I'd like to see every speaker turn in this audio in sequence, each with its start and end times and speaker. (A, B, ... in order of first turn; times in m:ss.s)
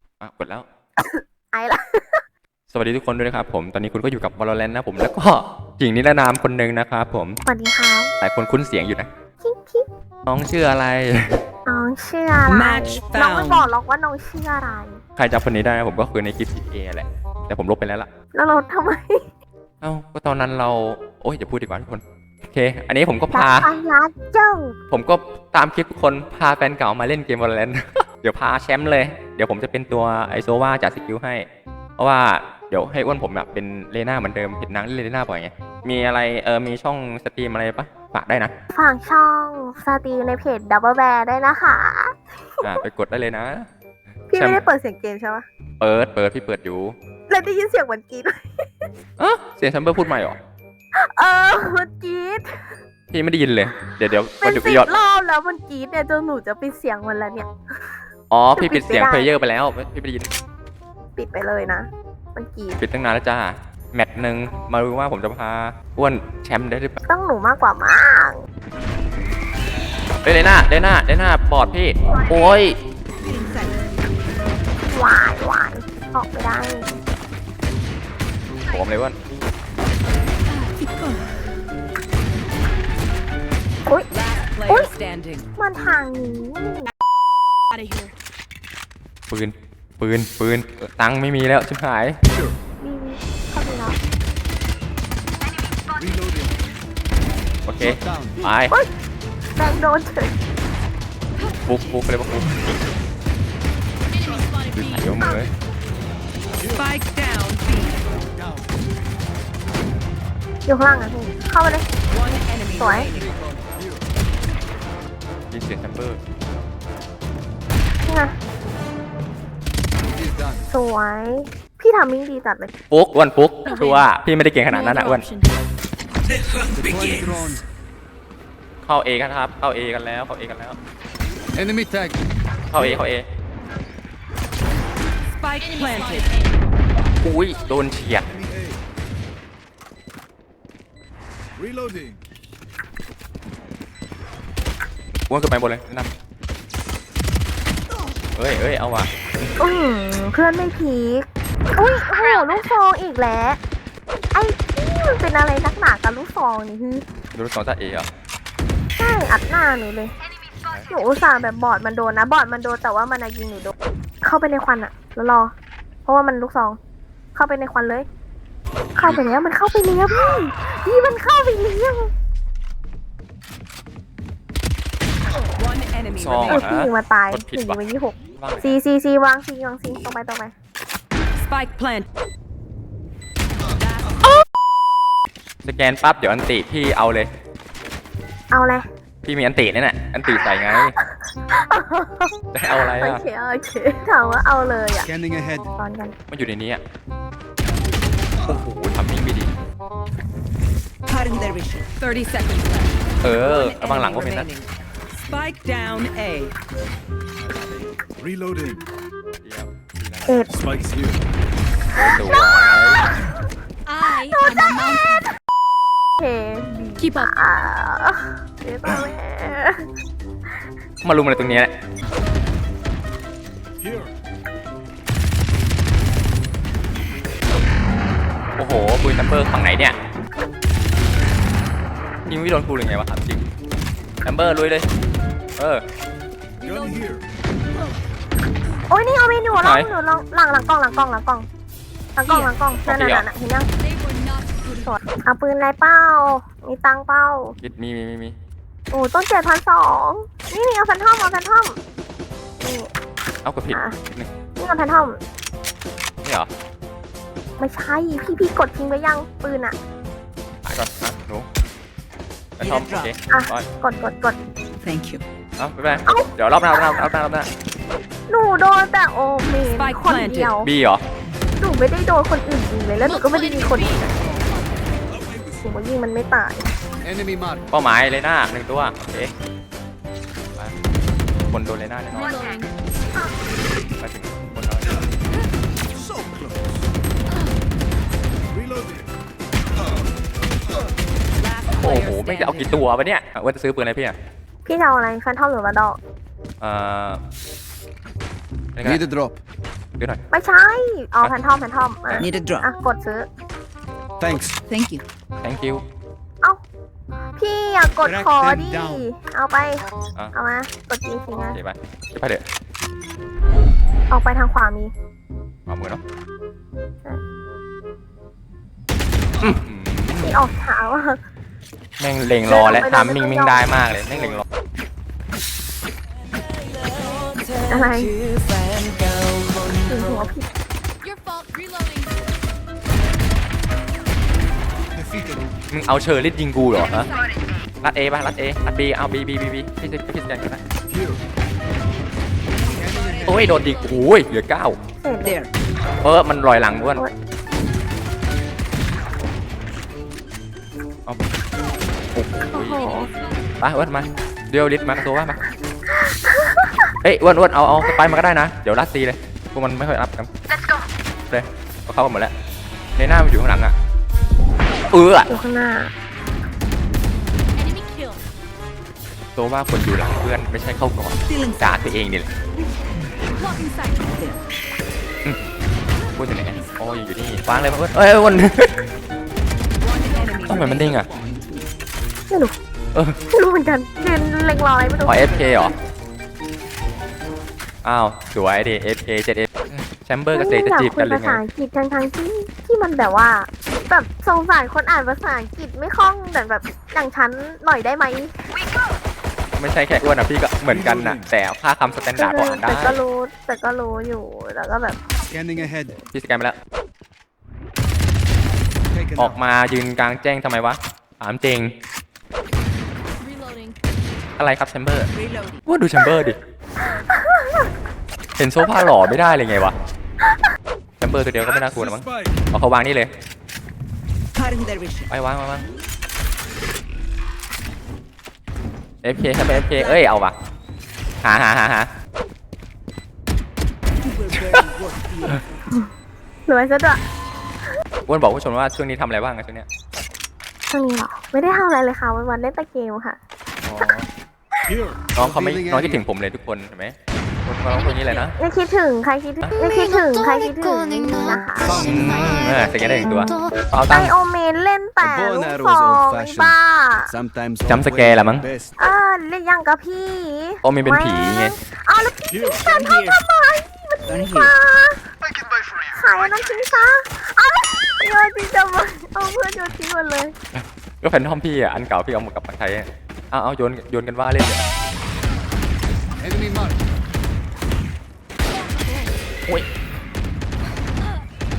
0:00.2-0:00.7 A
0:01.0-0:02.2 B
0:02.7-0:07.4 A
0:07.5-0:08.1 B
0:08.2-0:09.1 A
0:09.4-0:09.9 B
0:10.3-0:11.4 A
0:11.7-0:15.0 B
0:12.5-0:13.7 C
0:15.2-0:18.1 A
0:18.3-0:19.2 B
0:19.8-0:23.7 A
0:23.3-0:24.8 B
0:24.9-0:31.5 A
0:32.0-0:38.5 A
0:38.7-0:42.8 B
0:42.6-0:43.7 A
0:44.3-0:44.6 A
0:44.3-0:45.5 B
0:45.8-0:47.0 A
0:47.3-0:48.9 B
0:49.2-0:50.4 A
0:51.0-0:52.7 B
0:53.1-0:54.9 A
0:53.7-0:59.4 B
0:58.3-1:00.3 A
1:01.2-1:02.8 B
1:02.8-1:07.0 A
1:07.1-1:08.4 B
1:10.2-1:12.8 A
1:13.2-1:13.8 C
1:14.9-1:16.8 B
1:18.7-1:19.2 A
1:20.8-1:21.2 C
1:24.1-1:25.5 C
1:24.7-1:24.9 B
1:25.6-1:26.9 B
1:27.7-1:28.1 D
1:29.3-1:32.2 A
1:32.8-1:34.0 B
1:35.9-1:36.6 E
1:37.7-1:38.7 A
1:37.8-1:38.5 E
1:39.6-1:40.3 B
1:41.6-1:42.6 A
1:44.2-1:45.4 D
1:44.8-1:45.5 A
1:46.7-1:48.0 C
1:48.1-1:48.7 E
1:50.7-1:51.9 B
1:52.1-1:53.3 C
1:52.8-1:53.1 B
1:53.1-1:54.0 E
1:55.5-1:56.2 A
1:58.0-1:58.4 B
2:00.1-2:00.6 E
2:00.7-2:02.7 B
2:02.9-2:05.3 A
2:03.7-2:04.1 D
2:04.7-2:05.5 D
2:06.7-2:07.6 E
2:08.8-2:10.8 A
2:11.6-2:12.2 E
2:12.7-2:13.2 A
2:15.3-2:16.3 C
2:15.7-2:16.5 D
2:17.2-2:18.3 A
2:18.3-2:18.8 E
2:21.6-2:22.2 E
2:25.3-2:26.1 A
2:28.4-2:29.5 A
2:29.6-2:33.6 B
2:34.3-2:37.0 B
2:37.3-2:38.1 A
2:39.0-2:40.1 B
2:40.9-2:45.5 B
2:46.0-2:46.8 B
2:47.4-2:48.1 B
2:49.0-2:52.1 B
2:55.6-2:56.7 C
2:56.1-2:57.8 A
2:56.5-3:00.5 B
2:58.3-2:58.8 A
3:01.4-3:02.1 C
3:03.7-3:04.3 C
3:05.6-3:07.3 A
3:08.5-3:08.9 B
3:09.2-3:10.9 A
3:10.7-3:15.1 B
3:12.5-3:13.2 A
3:15.0-3:15.7 E
3:15.7-3:16.1 B
3:16.3-3:16.8 A
3:18.4-3:19.5 A
3:21.1-3:26.6 C
3:23.2-3:24.5 A
3:28.2-3:28.8 E
3:29.4-3:30.3 A
3:30.5-3:31.2 E
3:31.9-3:33.0 A
3:32.1-3:32.6 B
3:33.9-3:35.2 D
3:34.1-3:34.8 B
3:36.2-3:39.9 B
3:37.0-3:37.3 D
3:41.0-3:41.7 A
3:43.8-3:44.1 E
3:48.6-3:50.0 A
3:52.2-3:53.4 A
3:54.2-3:54.9 A
3:55.6-3:55.8 A
3:56.6-3:57.2 E
3:58.9-4:01.5 B
3:59.5-3:59.9 A
4:02.2-4:03.7 B
4:02.8-4:03.3 A
4:03.8-4:04.8 D
4:04.8-4:07.6 B
4:07.6-4:08.3 A
4:08.9-4:11.8 B
4:12.6-4:12.9 B
4:13.4-4:14.3 A
4:13.7-4:14.0 B
4:14.6-4:15.2 B
4:16.2-4:16.5 A
4:17.6-4:19.8 B
4:20.6-4:21.5 A
4:22.6-4:23.7 A
4:22.6-4:23.1 C
4:23.3-4:24.4 B
4:24.8-4:25.2 C
4:25.6-4:27.5 A
4:26.1-4:27.1 B
4:28.3-4:30.7 B
4:29.7-4:30.6 C
4:30.6-4:31.0 A
4:31.6-4:34.2 B
4:33.0-4:34.8 D
4:35.5-4:36.7 B
4:37.0-4:37.6 E
4:37.7-4:39.3 A
4:41.5-4:42.4 A
4:42.1-4:42.7 D
4:44.0-4:45.0 A
4:46.0-4:46.7 E
4:48.5-4:49.1 E
4:51.4-4:52.8 C
4:51.7-4:54.2 A
4:54.6-4:56.0 B
4:56.6-4:57.2 A
4:58.8-4:59.0 A
4:58.8-4:59.4 E
5:00.3-5:03.3 B
5:02.2-5:02.6 C
5:04.2-5:04.6 E
5:04.7-5:05.0 C
5:05.4-5:05.8 A
5:07.4-5:11.6 B
5:08.0-5:09.1 E
5:11.5-5:12.4 A
5:14.1-5:14.9 B
5:15.7-5:16.0 A
5:19.4-5:20.3 A
5:20.2-5:21.2 B
5:22.0-5:24.4 A
5:22.5-5:23.6 B
5:26.7-5:30.2 C
5:27.7-5:28.2 B
5:29.9-5:30.5 B
5:31.0-5:32.2 D
5:35.0-5:35.5 E
5:35.7-5:37.1 A
5:36.8-5:37.2 D
5:37.8-5:40.6 A
5:40.9-5:41.2 E
5:42.6-5:44.1 C
5:42.7-5:43.6 E
5:43.2-5:44.8 A
5:45.0-5:45.4 B
5:45.2-5:45.5 C
5:46.0-5:47.0 A
5:52.1-5:53.1 A
5:52.5-5:53.1 B
5:53.6-5:55.4 A
5:55.9-5:56.9 B
5:57.0-6:00.3 A
5:57.8-5:58.1 B
6:01.3-6:02.3 A
6:03.0-6:03.8 A
6:04.9-6:05.3 A
6:05.3-6:05.9 B
6:07.6-6:08.2 D
6:09.4-6:12.3 A
6:11.3-6:11.8 C
6:13.3-6:14.0 D
6:13.7-6:14.4 C
6:15.2-6:15.5 A
6:16.2-6:18.9 A
6:19.8-6:21.7 C
6:20.1-6:20.8 D
6:20.5-6:21.1 A
6:22.9-6:23.2 A
6:23.3-6:25.3 B
6:25.0-6:25.7 A
6:25.3-6:25.7 C
6:27.8-6:31.4 A
6:30.3-6:38.3 B
6:39.6-6:43.0 A
6:40.7-6:41.3 E
6:42.1-6:45.0 B
6:45.3-6:46.0 E
6:46.1-6:46.6 A
6:48.9-6:49.4 E
6:49.2-6:51.7 A
6:53.2-6:53.8 D
6:54.4-6:55.1 A
6:55.1-6:55.6 C
6:55.7-6:56.4 A
6:56.8-6:57.7 B
6:58.4-6:59.8 A
7:01.0-7:03.1 A
7:01.6-7:02.3 E
7:04.4-7:05.1 C
7:05.1-7:05.6 A
7:09.0-7:10.4 A
7:09.5-7:10.1 C
7:11.2-7:11.9 A
7:14.0-7:15.2 C
7:14.6-7:15.3 E
7:16.5-7:17.0 B
7:18.1-7:19.7 A
7:20.7-7:23.2 B
7:23.6-7:24.0 A
7:24.7-7:26.0 E
7:25.2-7:28.4 A
7:28.4-7:31.9 B
7:31.6-7:32.4 E
7:31.8-7:34.1 A
7:33.9-7:37.1 B
7:35.0-7:36.6 E
7:37.1-7:38.7 E
7:37.7-7:38.5 A
7:38.8-7:45.1 B
7:40.6-7:41.6 A
7:42.3-7:42.6 E
7:42.7-7:43.2 C
7:44.1-7:44.5 C
7:45.9-7:50.4 B
7:50.6-7:54.6 A
7:56.2-7:56.8 E